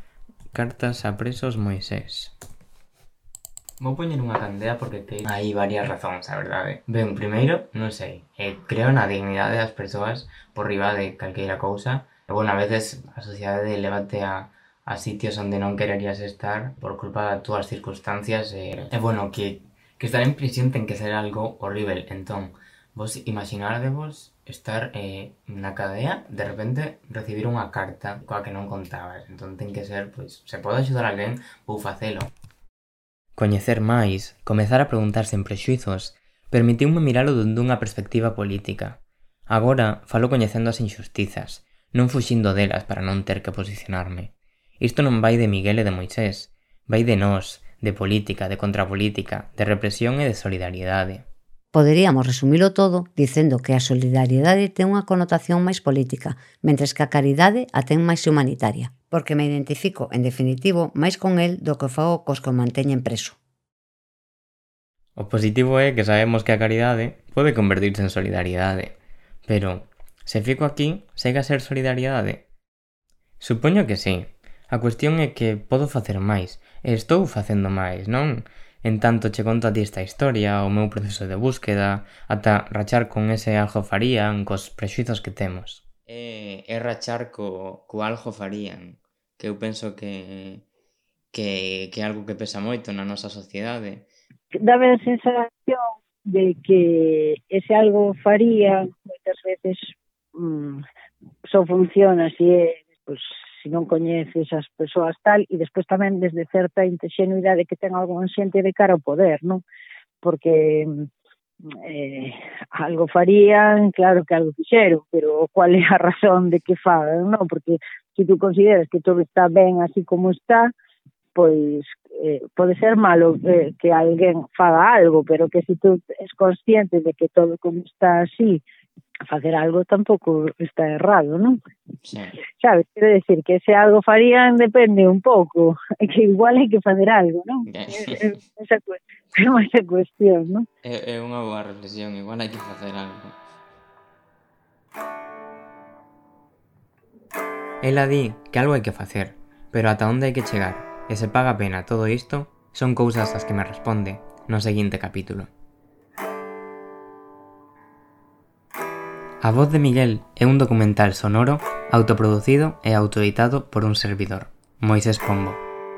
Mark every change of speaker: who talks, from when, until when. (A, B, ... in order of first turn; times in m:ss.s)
0:00.5-0:02.3 A
0:03.8-0:32.3 A
0:33.4-0:51.2 A
0:51.7-1:03.4 B
1:05.2-1:08.9 A
1:09.5-1:12.4 A
1:13.4-1:30.6 A
1:31.3-1:34.1 A
1:34.6-1:40.8 C
1:41.4-1:49.6 C
1:50.2-1:51.0 C
1:51.7-2:00.7 C
2:01.3-2:08.6 C
2:09.3-2:11.6 C
2:12.0-2:12.4 A
2:12.5-2:20.6 C
2:17.7-2:18.3 A
2:20.8-2:23.4 A
2:27.8-2:35.5 A
2:39.4-2:45.6 A